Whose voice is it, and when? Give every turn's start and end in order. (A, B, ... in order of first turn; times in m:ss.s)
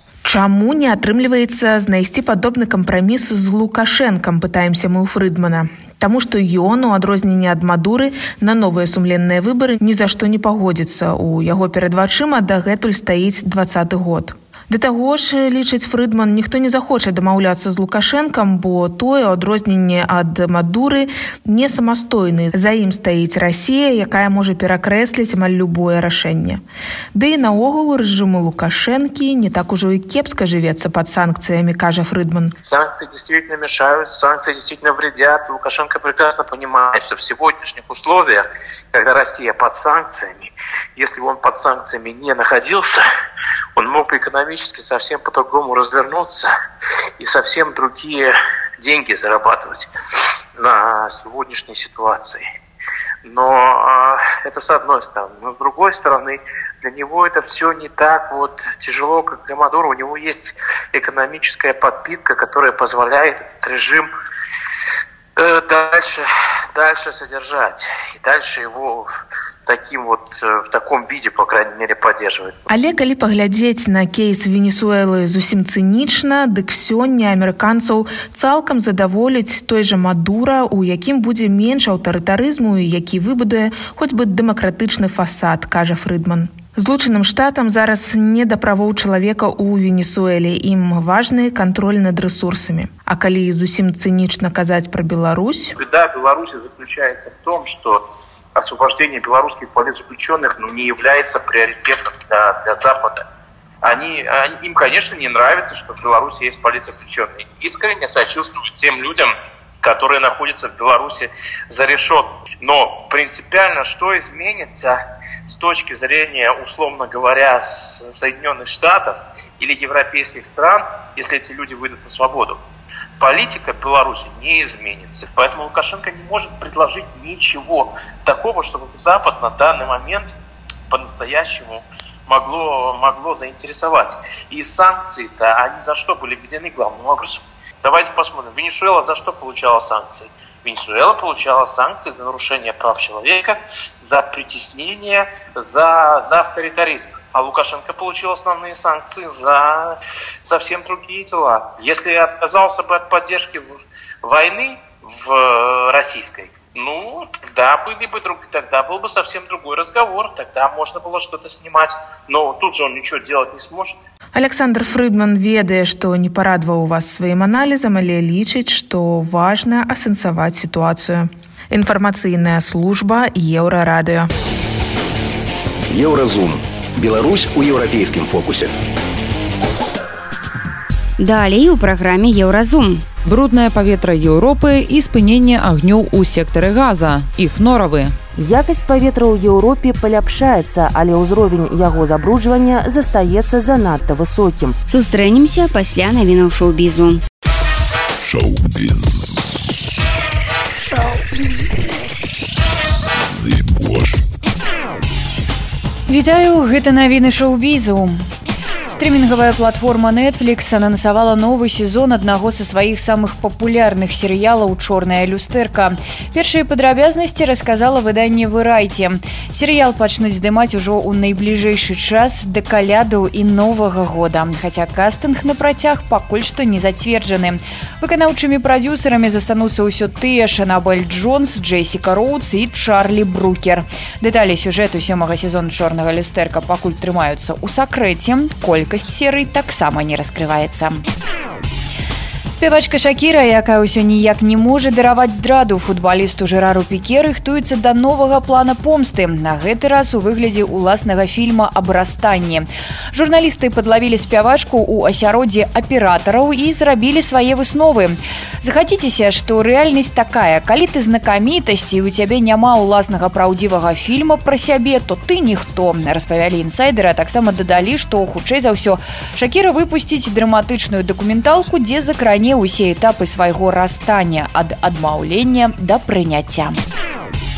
0:00.2-0:26.6 A
0:27.1-0:32.5 A
0:32.6-0:43.0 B
0:43.8-0:46.5 B
0:47.2-0:52.4 B
0:53.2-1:04.1 B
1:05.4-1:09.1 B
1:09.6-1:12.7 B
1:12.7-1:35.7 A
1:35.8-1:38.0 B
1:38.5-1:43.2 B
1:43.8-2:02.6 B
2:03.2-2:10.3 B
2:10.9-2:44.0 B
2:44.3-2:54.3 A
2:55.9-2:58.7 C
3:01.2-3:03.0 D
3:03.2-3:08.1 E
3:08.4-3:14.8 F
3:14.9-3:17.2 D
3:18.2-3:19.5 G
3:23.1-3:24.2 G
3:26.1-3:28.2 H
3:28.9-4:01.0 H
4:02.5-4:36.8 H